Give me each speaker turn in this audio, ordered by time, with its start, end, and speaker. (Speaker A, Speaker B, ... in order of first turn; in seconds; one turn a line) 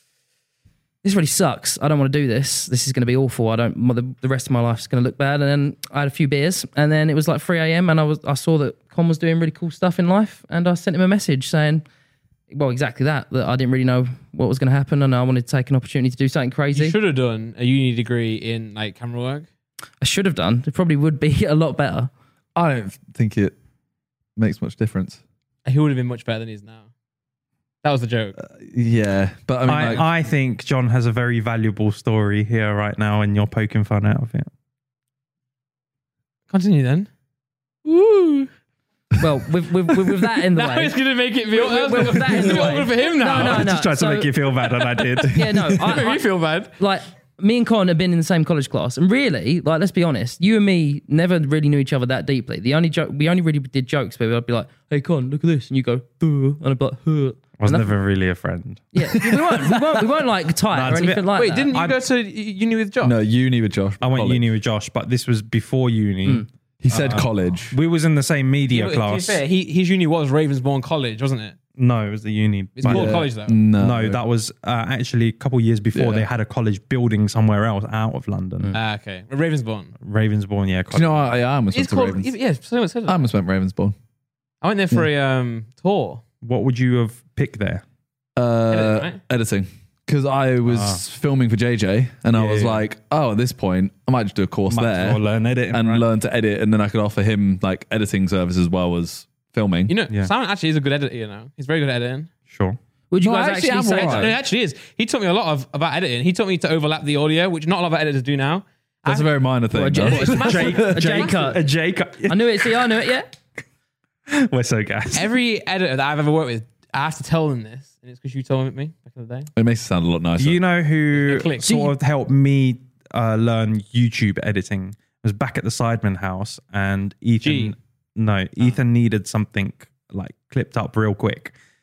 Speaker A: 1.0-11.8
Speaker A: 12.5-17.0
Speaker B: 16.7-19.5
Speaker A: 20.0-22.1
Speaker C: 22.6-23.6
Speaker C: 24.4-25.2
Speaker B: 25.6-26.9
Speaker B: 27.8-28.4
Speaker C: 28.4-30.1
Speaker D: 29.7-34.5
Speaker B: 36.5-37.1
Speaker B: 37.9-38.5
Speaker A: 39.2-41.0
Speaker B: 40.5-43.7
Speaker A: 41.5-44.3
Speaker D: 43.3-45.7
Speaker A: 45.3-46.2
Speaker B: 45.6-46.8
Speaker A: 46.8-57.9
Speaker D: 57.6-59.6
Speaker A: 58.9-61.7
Speaker D: 60.7-62.0
Speaker B: 61.3-63.1
Speaker C: 63.0-64.4
Speaker D: 64.0-69.4
Speaker C: 66.8-67.8
Speaker B: 68.7-71.6
Speaker D: 71.8-73.3
Speaker B: 72.8-73.6
Speaker C: 72.8-74.2
Speaker D: 73.8-78.7
Speaker C: 75.9-76.3
Speaker B: 78.7-80.0
Speaker D: 80.0-81.2
Speaker C: 80.9-82.3
Speaker B: 81.7-83.3
Speaker C: 83.1-84.0
Speaker B: 84.6-86.2
Speaker D: 86.4-87.8
Speaker C: 88.4-95.2
Speaker B: 88.7-89.2
Speaker D: 90.7-91.0
Speaker D: 92.3-92.8
Speaker D: 94.7-96.0
Speaker C: 95.7-99.9
Speaker B: 99.9-102.3
Speaker D: 102.5-102.8
Speaker A: 103.1-104.3
Speaker C: 103.2-104.3
Speaker B: 103.9-109.3
Speaker C: 109.1-110.9
Speaker A: 109.7-111.6
Speaker B: 110.0-111.4
Speaker D: 110.3-112.7
Speaker A: 112.3-113.3
Speaker D: 114.3-115.3
Speaker B: 115.1-119.5
Speaker C: 119.5-120.6
Speaker D: 120.4-131.6
Speaker B: 121.1-121.7
Speaker A: 121.6-121.9
Speaker B: 127.4-127.8